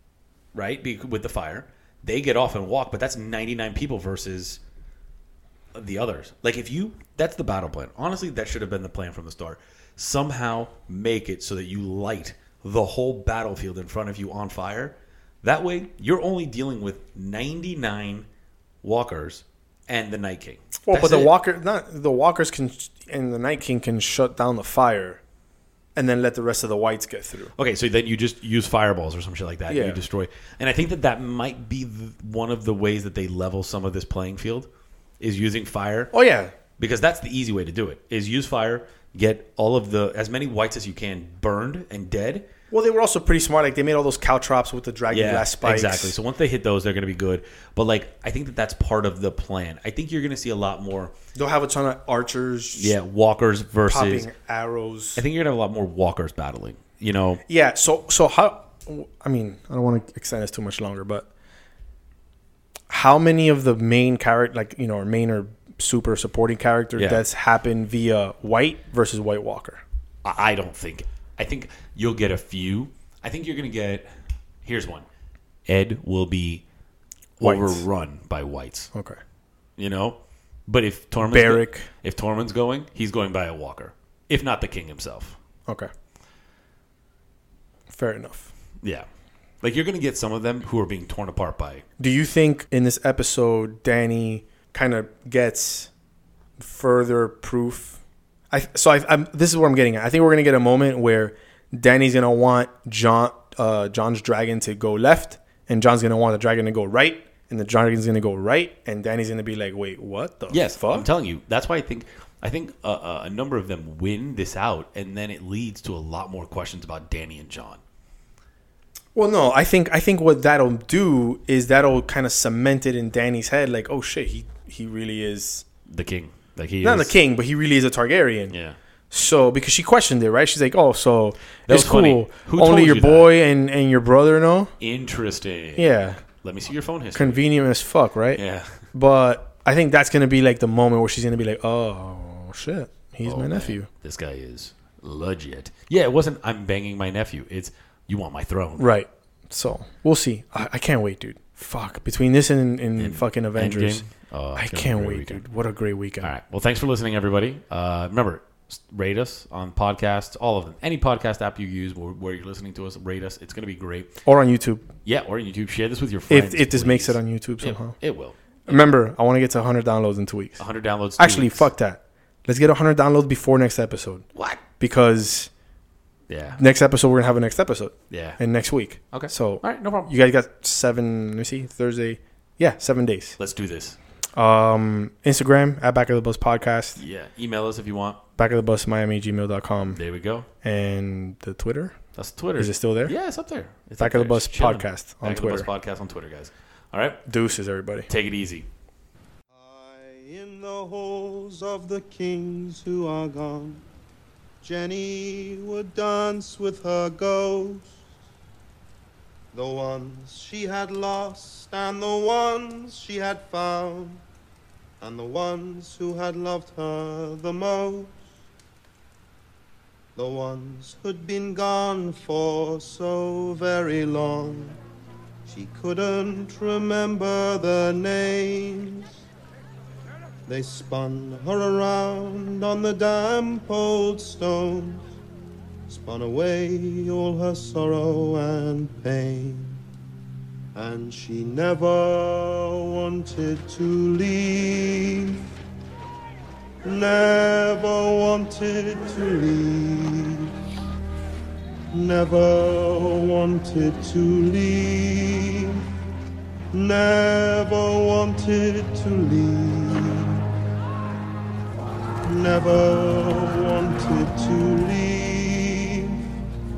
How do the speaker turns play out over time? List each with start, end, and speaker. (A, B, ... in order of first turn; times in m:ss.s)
0:00.5-0:04.6 A
0:05.8-0:18.3 A
0:18.8-0:21.3 A
0:20.9-0:25.2 B
0:26.0-0:27.5 B
0:27.6-0:34.7 A
0:29.7-0:30.0 B
0:35.2-0:36.1 A
0:36.1-0:36.5 B
0:36.8-0:42.5 A
0:42.7-0:46.2 B
0:45.1-0:51.1 A
0:51.3-0:53.0 B
0:52.8-0:54.3 A
0:53.8-0:55.2 B
0:55.2-0:57.4 A
0:57.5-1:01.3 B
1:02.9-1:09.8 B
1:07.0-1:07.2 A
1:10.2-1:14.1 A
1:14.6-1:15.1 A
1:15.7-1:16.6 A
1:17.4-1:18.9 A
1:17.4-1:17.8 B
1:18.9-1:19.2 B
1:19.8-1:25.4 A
1:21.2-1:21.9 B
1:27.9-1:28.5 B
1:29.6-1:31.8 A
1:32.0-1:35.9 B
1:36.6-1:38.0 B
1:38.5-1:51.1 B
1:50.5-1:57.8 A
1:59.2-2:05.7 B
2:05.9-2:07.2 A
2:06.8-2:08.6 B
2:08.5-2:08.8 A
2:09.1-2:14.7 B
2:11.7-2:13.3 A
2:14.8-2:17.4 A
2:15.8-2:16.2 B
2:17.2-2:18.4 B
2:18.4-2:18.9 A
2:18.9-2:23.9 B
2:23.2-2:28.9 A
2:28.8-2:34.0 B
2:33.0-2:35.4 A
2:34.6-2:36.3 B
2:36.2-2:44.2 A
2:44.2-2:44.9 B
2:45.0-2:49.0 A
2:46.3-2:48.0 B
2:48.7-2:50.6 B
2:50.6-2:51.7 A
2:51.2-2:54.2 B
2:54.4-2:54.6 A
2:54.8-2:55.5 B
2:56.3-2:56.6 A
2:56.6-3:03.4 B
2:58.1-2:58.4 A
2:59.1-3:00.1 A
3:03.4-3:04.0 A
3:04.4-3:07.0 B
3:07.0-3:08.2 A
3:08.4-3:10.0 B
3:09.9-3:10.5 A
3:10.6-3:12.0 B
3:12.2-3:17.2 A
3:12.6-3:13.2 B
3:14.0-3:15.7 B
3:17.3-3:18.1 B
3:18.1-3:18.7 A
3:19.5-3:23.8 C
3:24.6-3:28.0 C
3:29.5-3:34.2 C
3:35.0-3:38.2 C
3:40.2-3:44.8 C
3:45.5-3:49.2 C
3:50.5-3:55.1 C
3:55.9-3:59.8 C
4:00.8-4:05.4 C
4:06.8-4:10.5 C
4:11.9-4:15.8 C
4:16.7-4:20.4 C
4:22.2-4:26.3 C